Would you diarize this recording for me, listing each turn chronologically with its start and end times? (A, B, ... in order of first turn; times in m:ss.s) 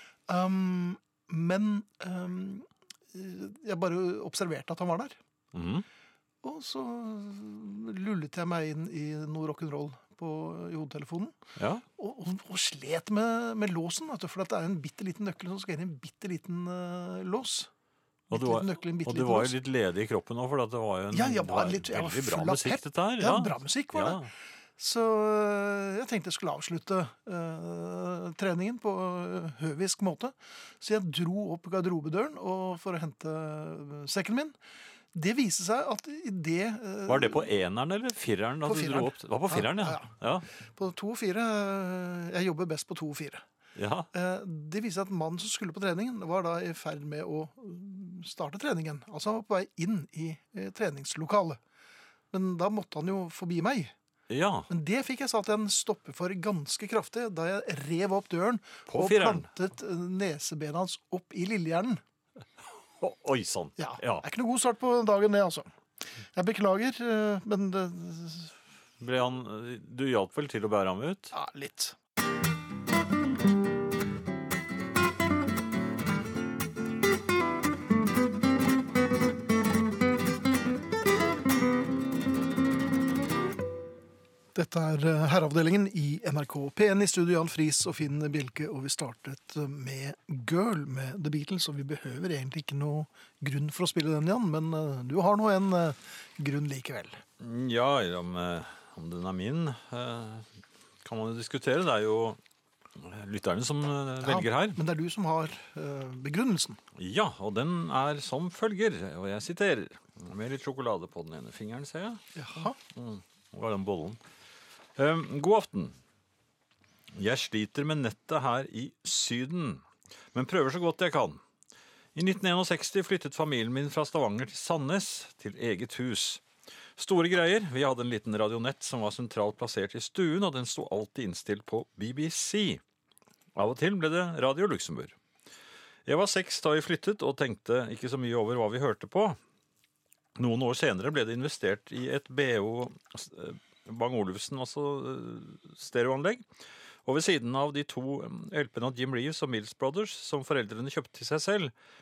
0:00.3-0:05.2 A
0:05.5-0:05.9 B
0:06.4-0:11.4 A
0:11.6-0:11.8 B
0:12.0-0:17.7 A
0:18.3-0:24.3 B
0:18.3-0:19.6 A
0:21.1-0:34.6 A
0:35.1-0:37.5 A
0:37.1-0:40.5 B
0:38.6-0:43.4 A
0:43.8-0:44.1 B
0:44.1-0:51.6 A
0:52.3-0:53.9 A
0:54.3-0:54.7 B
0:54.7-1:02.0 A
0:58.9-0:59.5 B
1:03.0-1:04.2 B
1:03.8-1:05.7 A
1:06.3-1:08.6 A
1:09.0-1:11.3 B
1:11.3-1:12.0 A
1:24.5-1:37.2 A
1:37.4-1:40.5 B
1:41.0-1:42.4 B
1:43.0-1:44.8 B
1:44.2-1:46.8 A
1:47.0-1:52.3 B
1:52.4-1:52.8 A
1:52.9-1:54.2 B
1:55.0-1:55.9 B
1:57.1-2:01.4 B
2:02.1-2:06.4 B
2:07.0-2:12.8 B
2:13.6-2:15.1 B
2:16.1-2:19.4 B
2:20.4-2:26.4 B
2:27.1-2:31.7 B